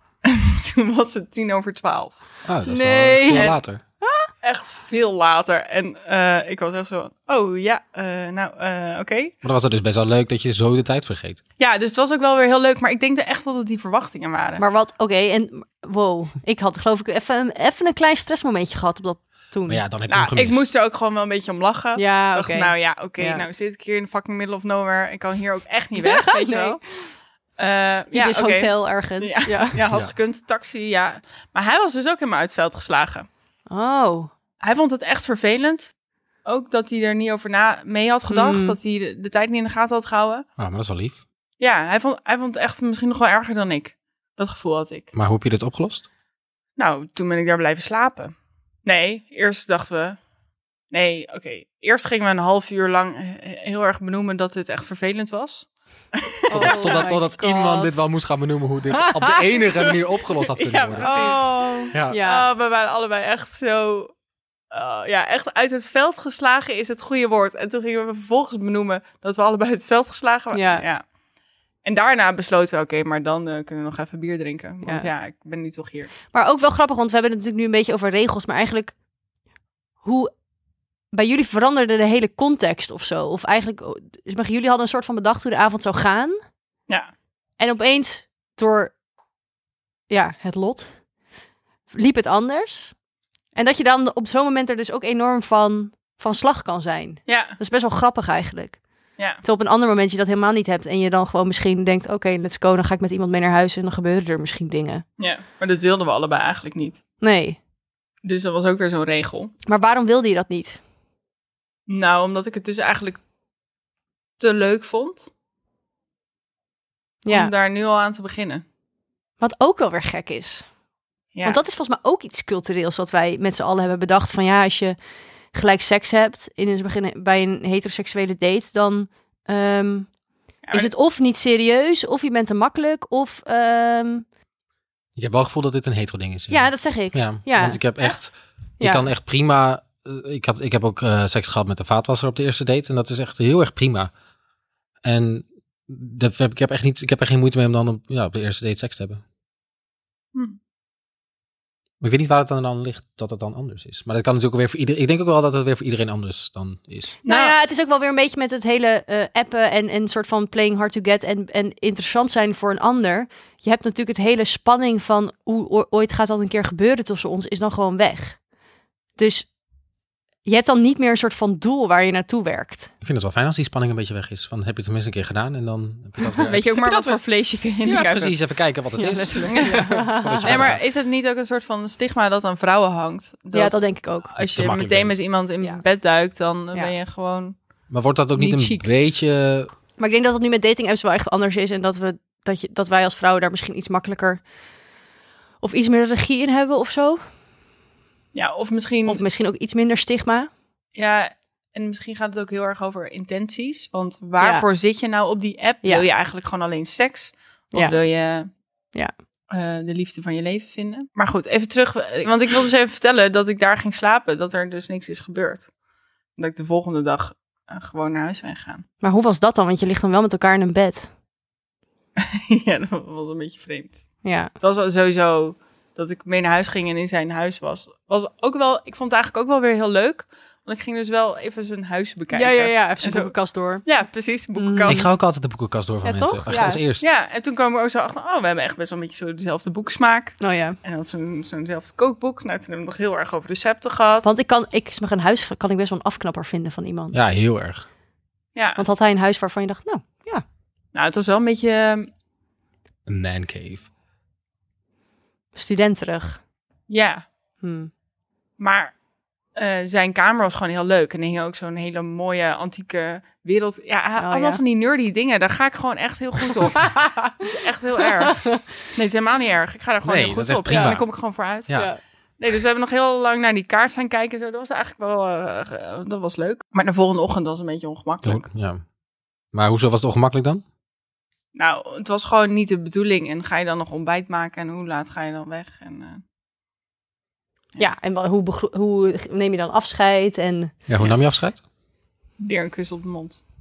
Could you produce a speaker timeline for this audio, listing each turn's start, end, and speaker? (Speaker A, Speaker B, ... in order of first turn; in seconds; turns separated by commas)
Speaker A: 0.2-2.2, Speaker B: 2.5-3.8, Speaker C: 2.7-4.3, Speaker A: 3.3-3.6, Speaker A: 4.4-9.3, Speaker B: 9.4-11.4, Speaker A: 11.6-14.6, Speaker C: 14.6-19.8, Speaker B: 19.7-20.7, Speaker A: 20.1-26.8, Speaker C: 22.0-23.4, Speaker C: 26.0-26.8, Speaker A: 27.6-33.3, Speaker C: 28.1-29.8, Speaker B: 29.9-30.1, Speaker C: 33.7-34.3, Speaker A: 34.6-35.9, Speaker A: 36.5-40.5, Speaker C: 38.3-38.8, Speaker B: 40.6-41.2, Speaker A: 41.6-45.1, Speaker B: 45.1-46.1, Speaker A: 46.8-48.3, Speaker A: 48.9-50.2, Speaker A: 50.9-57.1, Speaker C: 56.5-58.0, Speaker B: 56.5-62.2, Speaker C: 58.9-59.4, Speaker A: 60.4-64.1, Speaker C: 61.0-62.5, Speaker A: 64.7-71.0, Speaker C: 70.5-70.8, Speaker A: 71.8-76.1, Speaker C: 74.8-75.1, Speaker C: 76.3-78.9, Speaker C: 80.0-80.3, Speaker C: 81.1-86.4, Speaker C: 87.6-89.0, Speaker C: 90.1-90.9, Speaker C: 91.9-93.0, Speaker C: 93.5-98.8, Speaker A: 97.3-97.6, Speaker C: 99.4-105.0, Speaker A: 105.2-107.0, Speaker C: 107.2-107.6, Speaker A: 108.2-109.5, Speaker C: 109.7-110.8, Speaker A: 111.9-113.2, Speaker A: 114.4-115.3, Speaker C: 117.2-117.5, Speaker A: 117.3-118.6, Speaker C: 119.4-120.7, Speaker A: 121.3-121.6, Speaker C: 121.4-125.0, Speaker C: 125.5-130.1, Speaker C: 130.7-134.2, Speaker B: 135.2-144.1, Speaker C: 136.5-138.1, Speaker C: 138.8-139.1, Speaker B: 145.0-149.2, Speaker B: 152.0-157.2, Speaker A: 157.2-157.6, Speaker C: 157.2-168.4, Speaker C: 169.2-169.5, Speaker C: 170.4-172.9, Speaker B: 173.0-177.2, Speaker A: 176.4-178.3, Speaker B: 177.8-180.8, Speaker C: 179.0-180.7, Speaker A: 180.4-187.6, Speaker C: 183.5-184.3, Speaker B: 184.4-185.2, Speaker B: 187.9-189.7, Speaker C: 188.4-188.8, Speaker C: 190.0-194.4, Speaker C: 195.6-197.2, Speaker A: 198.3-199.2, Speaker C: 199.1-200.5, Speaker A: 200.9-208.5, Speaker C: 204.4-204.7, Speaker A: 209.5-215.7, Speaker A: 216.4-218.8, Speaker C: 219.0-221.1, Speaker A: 222.2-235.1, Speaker C: 224.2-224.5, Speaker C: 232.3-233.9, Speaker C: 234.6-235.1, Speaker B: 234.9-237.1, Speaker C: 236.0-236.8, Speaker A: 237.0-244.3, Speaker C: 240.4-240.8, Speaker C: 244.2-247.2, Speaker B: 247.1-247.8, Speaker A: 248.6-248.8, Speaker C: 248.8-250.4, Speaker A: 250.9-252.1, Speaker B: 253.1-253.9, Speaker C: 255.6-256.4, Speaker A: 256.9-257.2, Speaker C: 257.6-257.9, Speaker A: 258.6-258.9, Speaker A: 259.6-271.9, Speaker C: 264.2-264.6, Speaker C: 266.8-267.3, Speaker C: 268.2-268.6, Speaker B: 270.0-271.9, Speaker C: 270.7-271.0, Speaker C: 271.7-272.0, Speaker A: 272.4-278.4, Speaker B: 278.2-278.8, Speaker B: 279.5-280.6, Speaker A: 281.6-286.2, Speaker C: 287.8-290.8, Speaker B: 290.9-291.6, Speaker A: 292.4-293.4